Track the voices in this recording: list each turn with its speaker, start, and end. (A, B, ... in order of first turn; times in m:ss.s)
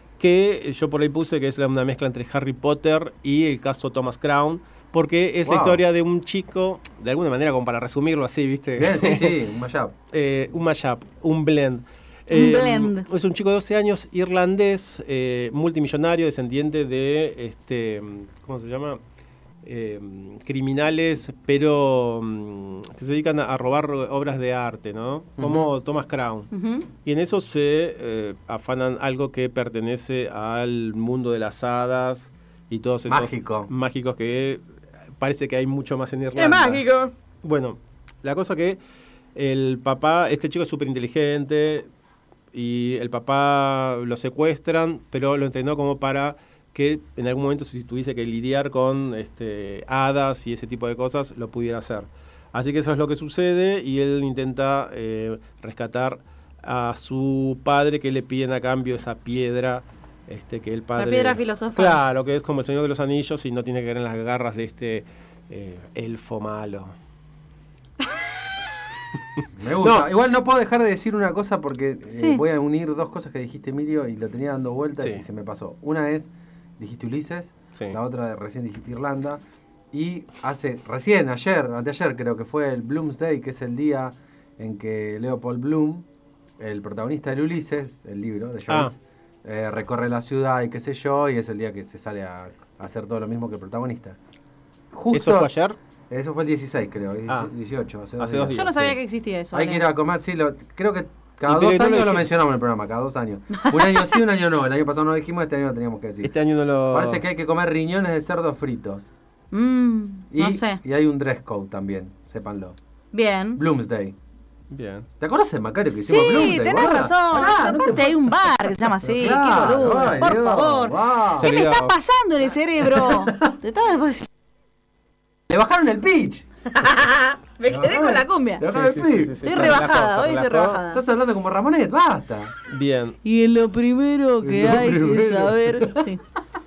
0:00.2-0:09.4 A
0:05.4-0:05.8 B
0:08.8-0:09.9 B
0:10.1-0:19.0 A
0:12.3-0:13.1 C
0:19.6-0:26.5 A
0:25.4-0:25.7 B
0:26.5-0:26.9 C
0:27.0-0:34.6 A
0:33.1-0:33.7 B
0:35.2-0:36.8 A
0:36.4-0:37.1 C
0:37.4-0:38.8 A
0:39.3-0:41.9 A
0:42.5-1:06.9 A
1:01.0-1:02.0 C
1:09.4-1:10.1 A
1:09.6-1:19.4 B
1:12.1-1:12.4 C
1:19.9-1:26.0 B
1:26.6-1:34.2 B
1:28.7-1:28.9 A
1:34.9-1:35.5 B
1:35.1-1:35.8 A
1:36.1-1:38.9 B
1:38.2-1:38.9 A
1:38.5-1:39.9 C
1:39.5-1:46.3 B
1:41.4-1:42.3 A
1:43.5-1:44.2 C
1:46.2-1:47.2 A
1:46.9-1:49.1 B
1:49.5-1:50.8 C
1:50.3-1:52.8 B
1:53.1-1:53.6 C
1:53.6-1:54.2 B
1:54.7-1:55.1 A
1:55.2-1:58.3 B
1:56.0-2:04.3 C
1:59.0-2:01.5 B
2:01.4-2:01.9 A
2:02.8-2:03.5 B
2:05.5-2:06.4 B
2:06.7-2:08.7 C
2:07.7-2:09.7 B
2:08.6-2:10.8 A
2:09.4-2:11.0 C
2:10.9-2:12.5 B
2:12.7-2:13.2 A
2:13.2-2:16.2 C
2:14.4-2:16.1 B